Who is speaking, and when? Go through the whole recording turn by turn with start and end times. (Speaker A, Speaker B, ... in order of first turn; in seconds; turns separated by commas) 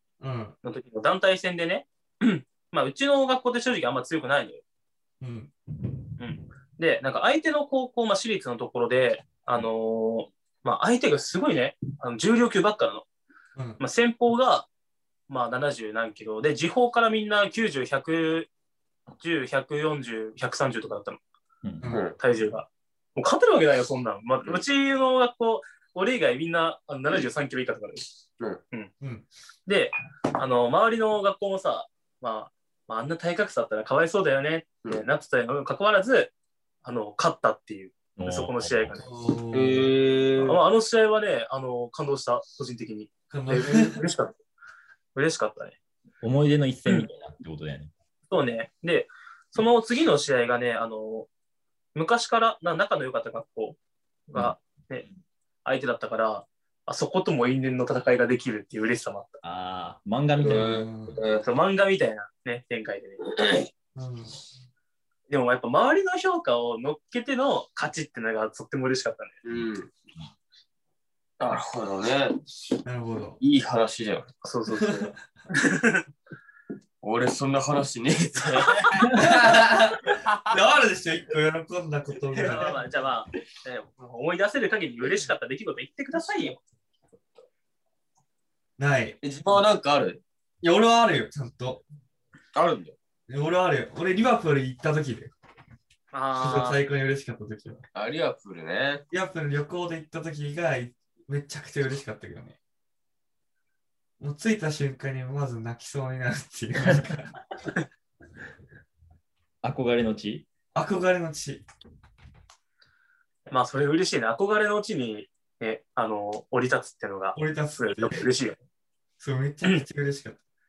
Speaker A: 0.2-0.5, Speaker B: 0.6-4.6, Speaker A: 5.2-5.5, Speaker B: 6.2-13.1, Speaker A: 13.5-13.8, Speaker B: 13.8-14.7, Speaker B: 15.3-18.5, Speaker B: 19.2-21.2, Speaker C: 21.6-21.9, Speaker A: 21.8-22.1, Speaker D: 21.9-22.1, Speaker B: 22.2-28.0, Speaker A: 29.0-29.2, Speaker B: 29.6-36.3, Speaker B: 36.8-39.1, Speaker C: 38.2-39.0, Speaker A: 39.0-39.9, Speaker D: 39.5-40.6, Speaker B: 40.4-44.3, Speaker A: 43.3-44.0, Speaker B: 45.1-45.8, Speaker C: 46.2-47.9, Speaker B: 48.3-51.3, Speaker B: 51.9-53.8, Speaker B: 54.3-55.0, Speaker B: 55.6-59.4, Speaker C: 59.4-60.9, Speaker A: 60.4-61.2, Speaker D: 60.4-61.4, Speaker B: 61.4-63.2, Speaker D: 63.3-63.7, Speaker A: 63.9-64.3, Speaker B: 65.3-69.3, Speaker D: 69.4-69.9, Speaker D: 71.4-72.4, Speaker A: 72.8-73.4, Speaker D: 73.4-74.3, Speaker B: 74.4-76.0, Speaker A: 74.8-75.2, Speaker D: 77.0-79.3, Speaker B: 78.5-79.0, Speaker A: 79.1-82.8, Speaker D: 80.0-80.6, Speaker B: 82.4-86.6, Speaker A: 88.8-89.6, Speaker D: 89.2-90.2, Speaker A: 90.6-91.8, Speaker D: 92.5-93.0, Speaker A: 93.3-95.3, Speaker B: 96.1-96.8, Speaker A: 96.4-97.8, Speaker D: 97.9-99.0, Speaker A: 99.1-102.5, Speaker A: 104.2-107.3, Speaker C: 109.6-110.5, Speaker A: 110.7-111.6, Speaker B: 113.5-118.6, Speaker A: 117.3-118.3, Speaker A: 119.2-120.4